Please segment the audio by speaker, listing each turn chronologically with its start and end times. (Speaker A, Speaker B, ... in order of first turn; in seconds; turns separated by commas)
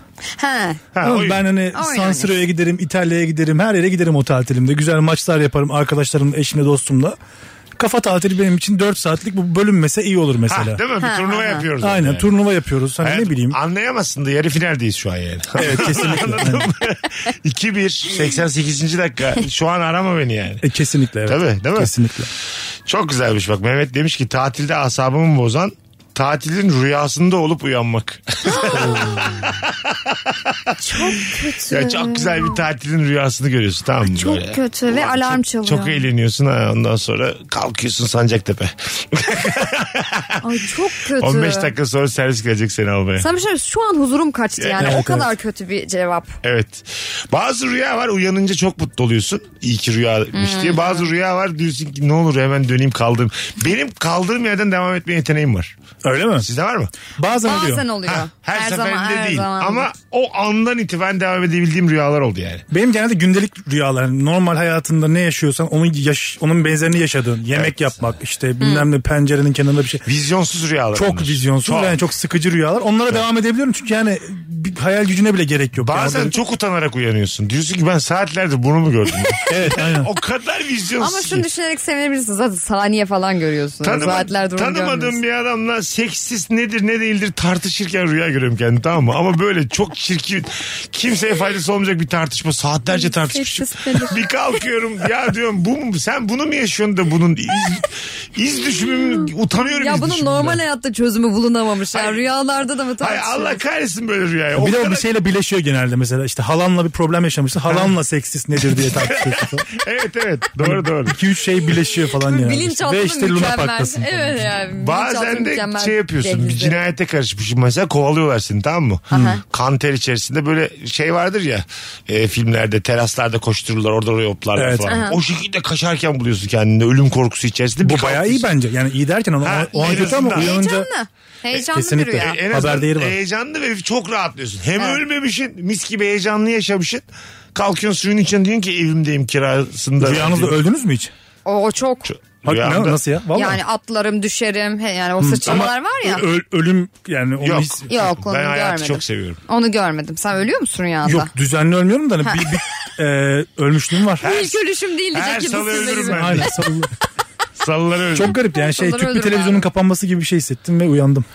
Speaker A: 0.4-0.8, Speaker B: 0.9-1.5, Speaker C: 1.0-7.2, Speaker A: 1.7-2.3, Speaker C: 7.8-10.8, Speaker B: 10.5-12.3, Speaker A: 11.0-11.6, Speaker C: 11.8-13.6, Speaker B: 13.0-20.6, Speaker C: 15.6-16.7, Speaker C: 20.6-22.3, Speaker B: 21.2-21.9, Speaker B: 22.9-31.1, Speaker A: 28.4-29.3, Speaker C: 28.7-29.3, Speaker A: 30.8-32.6, Speaker B: 31.7-40.4, Speaker A: 34.0-36.0, Speaker A: 40.4-41.7, Speaker B: 41.1-43.3, Speaker A: 43.2-46.4, Speaker B: 44.6-45.0, Speaker C: 44.8-45.3, Speaker B: 46.4-55.7, Speaker A: 50.3-51.1, Speaker C: 56.0-56.5, Speaker B: 56.4-57.0, Speaker C: 57.1-57.9, Speaker A: 57.4-59.9, Speaker B: 58.1-62.6, Speaker C: 62.7-70.0, Speaker B: 67.5-68.1, Speaker A: 68.6-68.9, Speaker B: 70.0-72.0, Speaker C: 70.9-76.3, Speaker B: 75.8-81.4, Speaker C: 79.5-80.1, Speaker A: 81.0-85.2, Speaker B: 83.8-100.5, Speaker A: 92.9-94.2, Speaker A: 99.8-103.6, Speaker B: 101.9-102.2, Speaker B: 103.0-105.1, Speaker C: 104.6-109.7, Speaker B: 107.7-107.9, Speaker B: 108.7-111.2, Speaker C: 110.6-114.5, Speaker A: 112.0-116.8, Speaker B: 114.8-128.5, Speaker A: 119.1-119.4, Speaker C: 124.5-125.0, Speaker A: 124.8-125.2, Speaker C: 127.8-130.9, Speaker B: 129.4-130.5, Speaker A: 129.8-132.4, Speaker C: 131.7-133.1, Speaker B: 132.1-140.6, Speaker C: 140.0-141.1, Speaker A: 141.4-142.1, Speaker B: 142.1-143.0, Speaker C: 142.4-143.6, Speaker A: 143.3-146.2, Speaker C: 145.2-147.8, Speaker B: 147.4-149.4, Speaker A: 147.9-151.3, Speaker C: 151.0-154.3, Speaker A: 152.2-152.5, Speaker B: 154.2-154.6, Speaker A: 154.2-156.6, Speaker B: 155.1-156.5, Speaker C: 155.9-156.9, Speaker B: 157.6-158.3, Speaker C: 158.1-161.2, Speaker A: 158.4-159.7